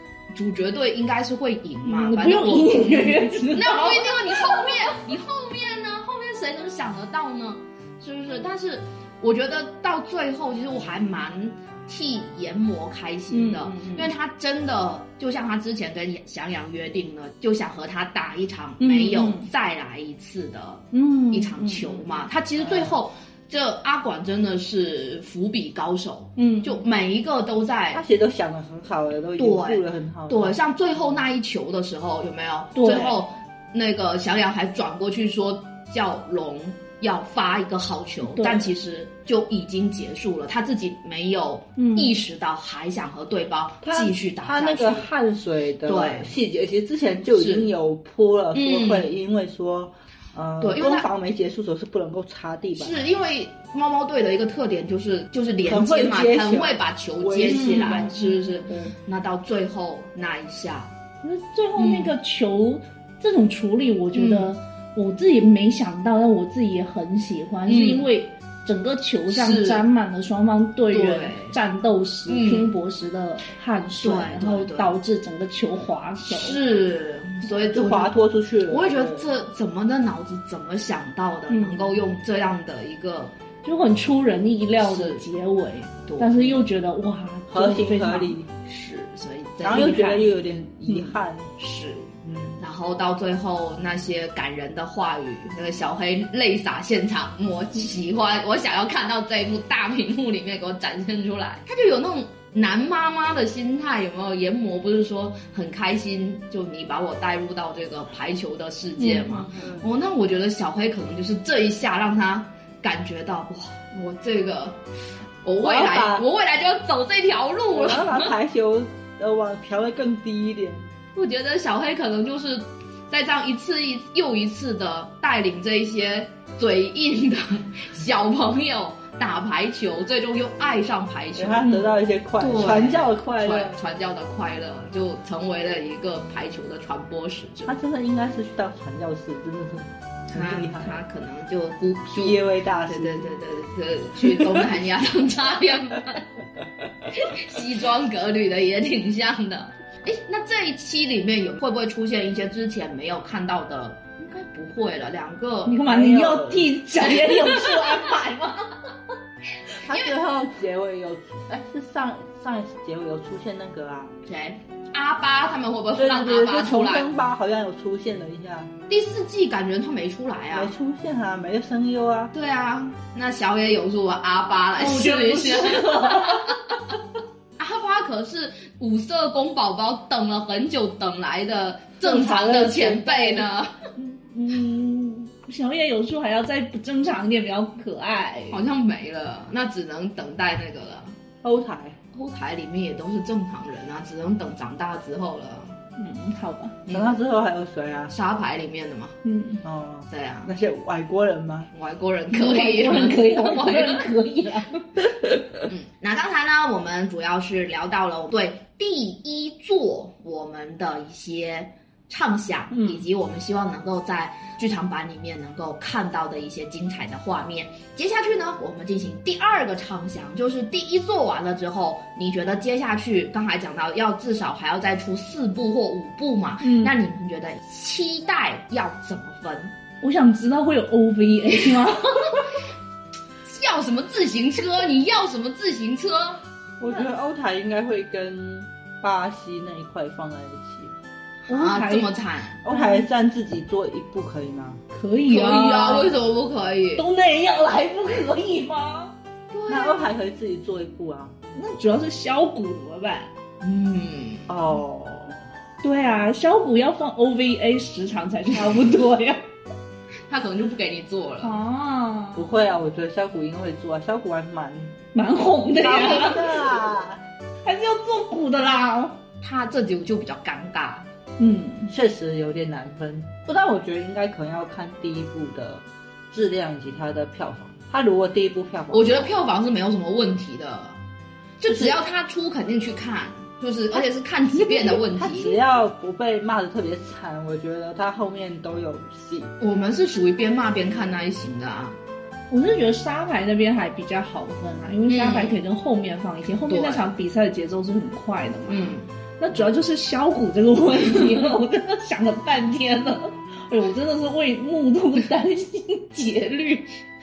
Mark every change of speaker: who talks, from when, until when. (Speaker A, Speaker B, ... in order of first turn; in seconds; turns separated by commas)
Speaker A: 0.3-28.0, Speaker B: 1.9-4.7, Speaker B: 13.3-14.1, Speaker B: 18.8-19.5, Speaker B: 20.9-21.9, Speaker C: 22.6-23.0, Speaker B: 26.4-26.8, Speaker C: 27.9-30.6, Speaker A: 29.4-45.1, Speaker B: 32.8-33.2, Speaker B: 38.3-38.7, Speaker B: 41.8-42.1, Speaker C: 43.8-53.0, Speaker A: 45.9-46.4, Speaker A: 47.3-47.7, Speaker A: 48.5-49.1, Speaker A: 50.6-51.1, Speaker A: 52.8-60.9, Speaker C: 55.6-58.1, Speaker B: 57.5-58.4, Speaker B: 61.2-76.6, Speaker A: 61.8-62.1, Speaker A: 64.1-64.5, Speaker A: 67.7-68.1, Speaker A: 69.3-69.8, Speaker A: 70.9-71.6, Speaker A: 72.3-72.7, Speaker A: 74.0-75.0, Speaker A: 76.3-78.1, Speaker C: 77.7-79.3, Speaker A: 78.7-83.3, Speaker B: 81.5-82.0, Speaker B: 83.6-88.4, Speaker A: 84.8-85.3, Speaker A: 86.1-86.6, Speaker C: 87.5-88.5, Speaker A: 88.7-90.3, Speaker C: 89.6-91.5, Speaker B: 89.8-90.1, Speaker A: 91.6-114.8, Speaker C: 92.2-92.6, Speaker B: 109.0-109.5, Speaker C: 109.5-109.9, Speaker A: 115.4-118.3, Speaker C: 115.6-116.3, Speaker C: 117.7-120.9, Speaker A: 121.2-131.8, Speaker C: 131.4-133.8, Speaker B: 131.7-131.9, Speaker A: 132.4-137.8, Speaker C: 137.7-141.0, Speaker A: 140.3-146.3, Speaker C: 142.1-143.3, Speaker C: 144.2-144.7, Speaker A: 147.1-156.0, Speaker B: 155.7-158.7, Speaker C: 155.9-156.7, Speaker A: 157.2-158.0, Speaker C: 159.8-164.1, Speaker A: 159.9-160.2, Speaker A: 164.3-167.1, Speaker C: 166.0-168.7, Speaker A: 168.9-170.7, Speaker C: 170.5-172.3, Speaker A: 172.3-176.6, Speaker B: 174.8-176.6, Speaker A: 177.6-183.8, Speaker C: 182.0-183.5, Speaker B: 184.0-188.6, Speaker A: 188.5-191.2, Speaker C: 191.4-192.0, Speaker A: 192.1-195.8, Speaker B: 196.0-196.8, Speaker A: 196.9-197.2, Speaker C: 196.9-198.1, Speaker A: 198.1-199.2, Speaker B: 199.2-199.6, Speaker C: 199.6-201.7, Speaker A: 200.1-200.5, Speaker A: 201.7-204.1, Speaker B: 202.3-204.8, Speaker A: 205.7-229.7, Speaker B: 226.6-226.9, Speaker B: 230.0-232.5, Speaker A: 233.4-236.4, Speaker C: 236.8-240.9, Speaker A: 241.5-242.6, Speaker B: 241.5-242.1, Speaker C: 242.6-244.8, Speaker B: 242.7-243.1, Speaker B: 244.9-246.1, Speaker A: 245.3-247.1, Speaker B: 247.0-249.1, Speaker A: 249.5-250.1, Speaker C: 249.7-251.3, Speaker B: 251.6-253.3, Speaker A: 253.6-254.5, Speaker C: 254.5-255.4, Speaker B: 255.8-259.4, Speaker A: 260.3-261.6, Speaker B: 261.4-262.5, Speaker C: 262.4-265.0, Speaker B: 265.1-266.6, Speaker C: 265.8-267.2, Speaker B: 267.6-269.2, Speaker A: 269.4-271.1, Speaker B: 271.4-271.9, Speaker C: 271.9-279.4, Speaker A: 278.9-281.0, Speaker A: 281.6-285.6, Speaker C: 281.7-282.0, Speaker C: 285.1-289.5, Speaker A: 289.6-292.0, Speaker B: 292.5-306.9, Speaker A: 295.1-295.6, Speaker A: 296.7-297.1, Speaker A: 298.7-299.1